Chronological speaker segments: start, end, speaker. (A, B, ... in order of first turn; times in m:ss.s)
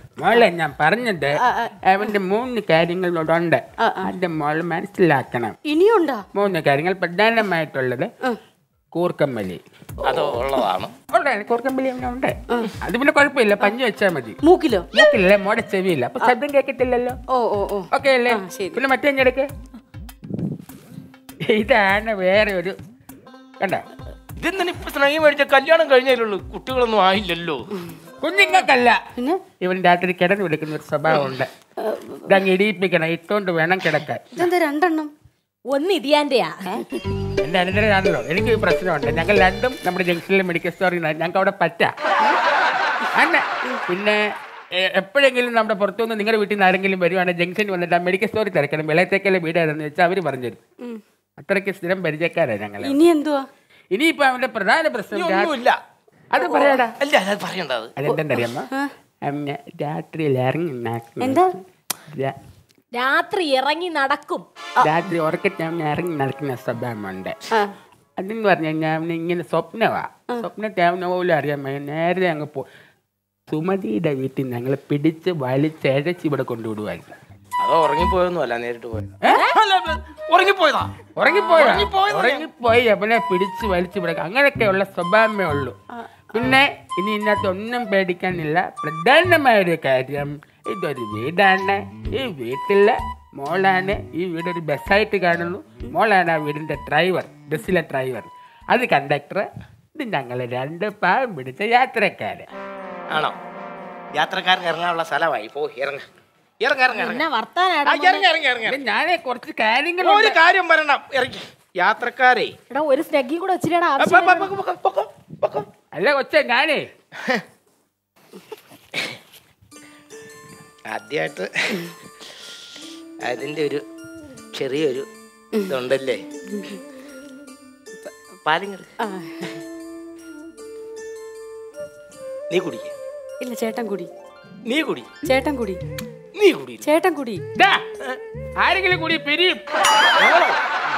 0:00.2-0:05.6 A
0:01.4-0:01.8 B
0:03.8-0:04.1 B
0:05.7-0:06.2 B
0:06.3-0:08.1 A
0:08.9-0:09.6 A
0:10.0-0:10.9 C
0:11.1-0:14.4 A
0:14.4-0:14.9 B
0:14.9-0:17.2 A
0:17.3-0:18.8 B
0:17.9-0:19.5 A
0:21.4-0:22.8 A
0:23.6-0:23.8 A
0:24.4-0:27.6 C
0:28.2-0:29.0 A
0:29.2-0:29.4 B
0:29.6-0:31.5 A
0:31.8-0:32.4 B
0:32.3-0:34.4 A
0:34.3-0:35.1 B
0:35.7-0:36.8 D
0:37.4-0:41.9 A
0:43.2-0:44.2 A
0:44.8-0:50.6 A
0:51.4-0:53.0 A
0:52.8-0:53.4 B
0:53.9-0:55.5 A
0:55.1-0:55.8 C
0:56.3-0:57.0 A
0:56.8-0:57.9 C
0:58.0-0:58.7 A
0:58.1-0:58.9 B
0:59.2-1:01.5 A
1:01.2-1:01.5 B
1:02.1-1:02.4 A
1:02.9-1:04.4 D
1:04.8-1:07.4 A
1:08.2-1:12.6 A
1:13.5-1:17.2 A
1:17.6-1:20.9 C
1:19.3-1:19.6 D
1:21.2-1:25.8 A
1:21.6-1:22.5 C
1:26.3-1:42.5 A
1:44.2-1:46.0 C
1:46.6-1:47.2 C
1:46.9-1:48.3 D
1:47.8-1:48.8 C
1:48.6-1:50.4 A
1:50.0-1:52.5 C
1:52.7-1:54.5 D
1:54.0-1:55.7 C
1:55.9-1:56.9 A
2:00.9-2:01.9 C
2:03.2-2:03.8 C
2:04.6-2:05.0 C
2:05.7-2:06.2 C
2:06.5-2:06.8 B
2:08.5-2:08.9 C
2:09.0-2:09.6 B
2:12.5-2:12.9 C
2:13.4-2:14.1 B
2:14.7-2:15.1 C
2:15.2-2:15.8 B
2:16.4-2:16.9 C
2:16.8-2:17.4 B
2:17.6-2:17.8 A
2:18.6-2:19.6 A
2:20.2-2:20.6 C